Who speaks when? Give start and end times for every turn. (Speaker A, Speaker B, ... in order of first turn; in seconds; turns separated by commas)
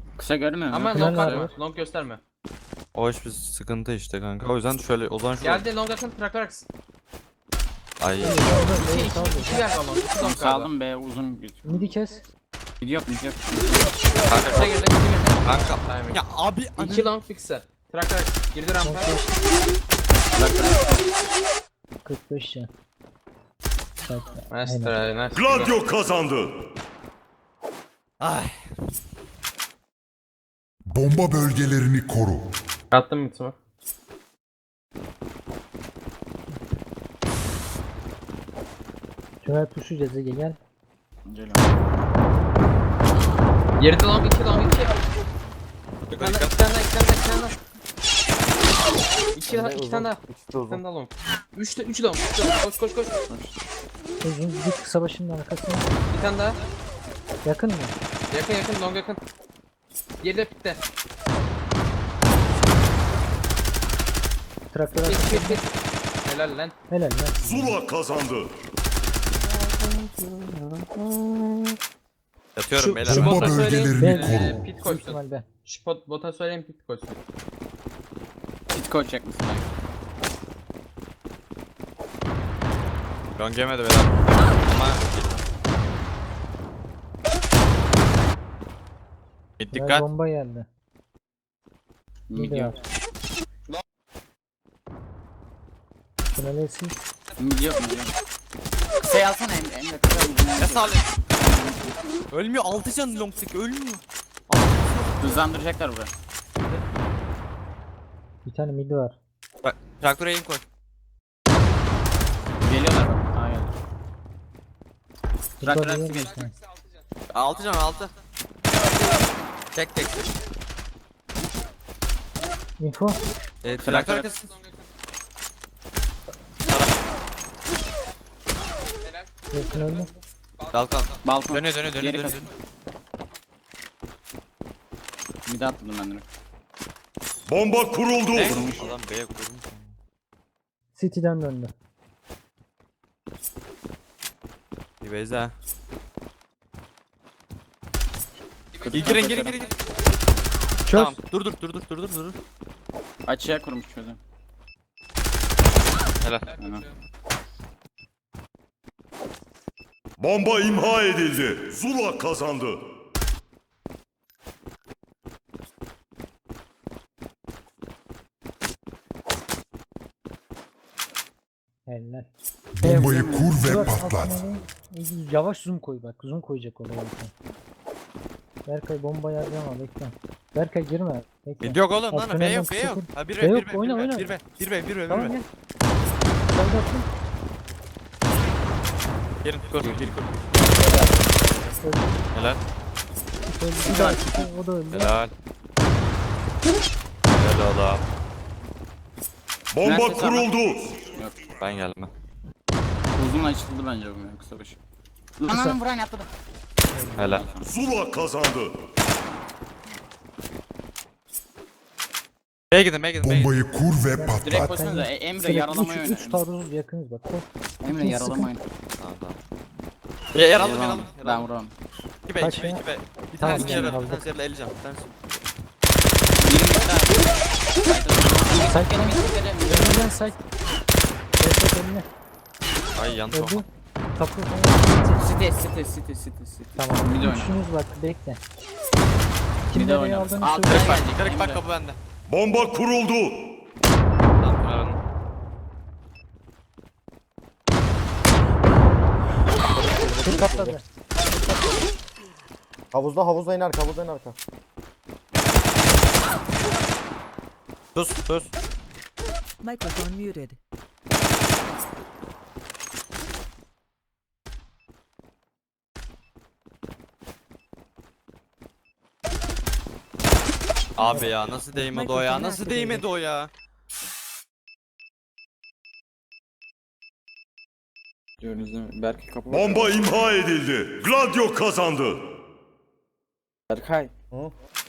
Speaker A: 0.2-1.5, Speaker B: 0.7-2.2, Speaker C: 0.9-1.5, Speaker D: 2.9-5.6, Speaker B: 5.4-6.7, Speaker D: 8.0-8.5, Speaker C: 8.2-9.6, Speaker A: 8.8-11.9, Speaker B: 8.8-10.7, Speaker C: 11.6-12.3, Speaker A: 12.8-14.0, Speaker D: 14.3-14.7, Speaker B: 14.5-16.2, Speaker D: 15.4-17.1, Speaker B: 16.8-19.1, Speaker C: 18.8-19.4, Speaker A: 20.3-21.0, Speaker C: 22.0-22.7, Speaker C: 24.0-25.0, Speaker B: 24.5-25.7, Speaker E: 25.3-26.5, Speaker D: 28.2-28.7, Speaker F: 30.9-32.4, Speaker B: 32.9-33.5, Speaker C: 39.4-40.6, Speaker A: 41.2-41.7, Speaker B: 43.8-44.9, Speaker D: 46.1-46.5, Speaker B: 46.2-47.5, Speaker B: 49.3-53.1, Speaker G: 49.5-50.8, Speaker A: 53.3-53.5, Speaker C: 54.2-55.9, Speaker B: 56.1-56.6, Speaker C: 57.4-57.9, Speaker B: 58.3-59.2, Speaker B: 60.2-60.8, Speaker C: 64.7-65.6, Speaker B: 65.0-66.7, Speaker C: 66.9-67.8, Speaker E: 67.4-68.5, Speaker A: 69.4-71.7, Speaker D: 72.5-73.6, Speaker B: 72.8-77.2, Speaker F: 73.0-74.6, Speaker C: 74.0-75.5, Speaker A: 78.7-79.7, Speaker D: 83.3-85.4, Speaker D: 89.6-90.0, Speaker C: 89.7-90.7, Speaker A: 92.3-92.8, Speaker C: 92.3-92.7, Speaker C: 96.2-96.9, Speaker A: 97.4-98.1, Speaker A: 99.0-101.8, Speaker D: 100.6-101.1, Speaker D: 102.3-105.6, Speaker A: 105.2-106.1, Speaker C: 108.4-109.2, Speaker D: 109.6-110.6, Speaker A: 112.6-113.7, Speaker A: 115.6-116.4, Speaker C: 115.6-116.5, Speaker D: 117.3-118.1, Speaker D: 119.7-120.2, Speaker C: 122.8-123.2, Speaker D: 123.6-124.5, Speaker A: 123.8-124.3, Speaker D: 126.7-126.9, Speaker C: 129.5-130.1, Speaker D: 130.7-132.5, Speaker A: 131.2-132.4, Speaker A: 135.4-136.2, Speaker E: 137.5-138.8, Speaker D: 138.3-139.9, Speaker A: 138.3-138.8, Speaker C: 140.9-141.7, Speaker D: 145.0-145.5, Speaker A: 148.8-149.7, Speaker D: 148.9-149.7, Speaker C: 150.9-151.2, Speaker D: 150.9-152.3, Speaker A: 153.2-154.2, Speaker D: 156.2-156.5, Speaker A: 156.5-156.8, Speaker E: 160.2-162.8, Speaker C: 171.9-172.3, Speaker F: 172.7-174.3, Speaker C: 172.8-177.3, Speaker A: 173.0-173.7, Speaker C: 178.7-184.3, Speaker D: 181.6-185.3, Speaker C: 185.1-185.5, Speaker C: 186.5-187.1, Speaker D: 189.4-190.3, Speaker G: 190.5-191.8, Speaker C: 191.8-192.1, Speaker D: 192.3-192.6, Speaker C: 193.4-195.1, Speaker A: 193.9-194.3, Speaker D: 194.9-195.3, Speaker D: 197.3-198.0, Speaker E: 199.7-201.0, Speaker A: 199.8-200.5, Speaker A: 201.1-201.4, Speaker D: 201.6-202.1, Speaker A: 203.1-204.8, Speaker A: 205.4-206.3, Speaker C: 205.5-205.8, Speaker C: 206.9-207.4, Speaker A: 207.1-207.7, Speaker D: 207.2-207.4, Speaker E: 207.6-208.7, Speaker D: 212.7-213.5, Speaker F: 213.2-214.8, Speaker C: 214.2-218.5, Speaker A: 214.4-216.4, Speaker A: 217.8-218.7, Speaker D: 219.0-219.4, Speaker D: 220.3-221.5, Speaker A: 220.5-221.7, Speaker D: 222.3-225.5, Speaker C: 222.4-222.8, Speaker C: 223.4-224.2, Speaker A: 223.5-223.9, Speaker A: 226.4-230.1, Speaker C: 228.5-230.4, Speaker C: 231.4-232.1, Speaker D: 232.9-233.6, Speaker C: 233.3-235.3, Speaker A: 235.2-237.6, Speaker C: 236.8-238.4, Speaker C: 239.7-241.0, Speaker A: 239.7-241.6, Speaker D: 240.7-242.0, Speaker E: 242.3-243.4, Speaker D: 244.4-245.0, Speaker G: 249.7-251.8, Speaker C: 250.2-250.8, Speaker G: 252.9-254.4, Speaker D: 257.9-258.5, Speaker H: 259.6-260.6, Speaker D: 270.9-273.5, Speaker C: 271.1-271.9, Speaker H: 271.9-273.0, Speaker A: 278.4-280.0, Speaker E: 279.5-282.2, Speaker A: 283.7-284.1